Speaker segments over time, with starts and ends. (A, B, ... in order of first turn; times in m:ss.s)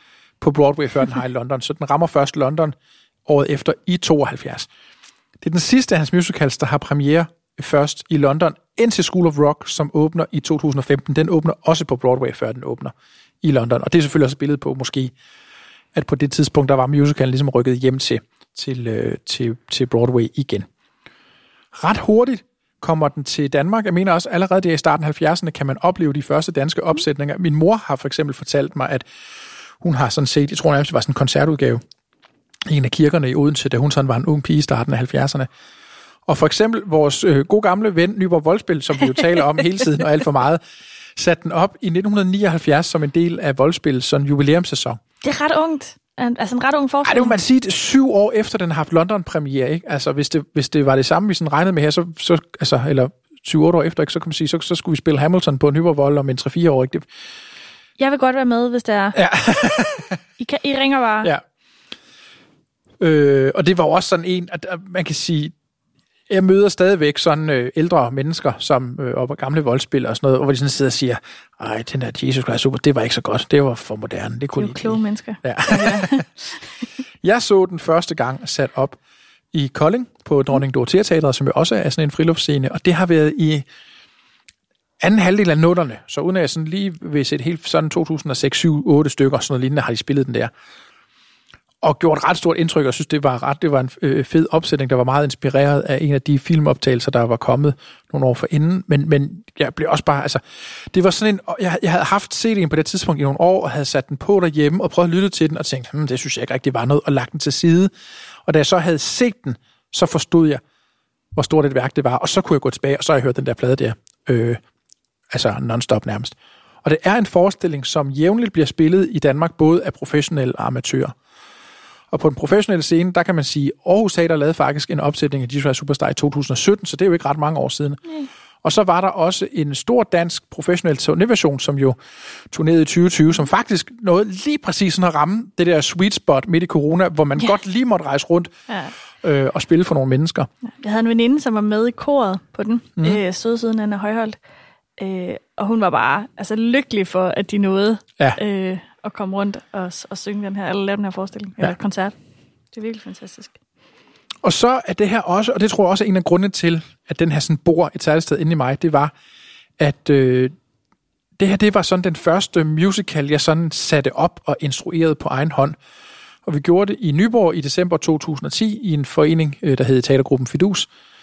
0:00.4-0:02.7 A
0:03.2-0:04.7 A
0:05.4-0:15.1 A
0:15.9-0:20.7 A
0:21.7-0:29.1 A
0:29.8-0:31.8 A
0:32.6-0:35.5 A
0:36.2-0:40.6 A
0:41.2-0:45.0 A
0:45.2-0:47.4 B
0:47.0-0:57.1 A
0:58.0-0:59.2 B
0:59.1-1:00.2 A
1:00.4-1:01.3 B
1:03.0-1:05.5 A
1:06.3-1:16.2 A
1:14.6-1:16.5 B
1:17.2-1:19.0 A
1:19.5-1:23.6 A
1:25.0-1:30.5 A
1:31.8-1:47.9 A
1:48.4-1:50.6 A
1:51.3-1:54.6 A
1:55.3-2:01.1 A
2:02.1-2:08.0 A
2:08.6-2:12.0 A
2:12.5-2:18.5 A
2:18.7-2:18.9 B
2:19.2-2:20.5 A
2:20.8-2:24.4 B
2:25.0-2:32.1 B
2:32.7-2:33.6 B
2:34.4-2:39.1 A
2:39.8-2:40.5 A
2:41.4-2:45.8 A
2:46.4-2:50.9 A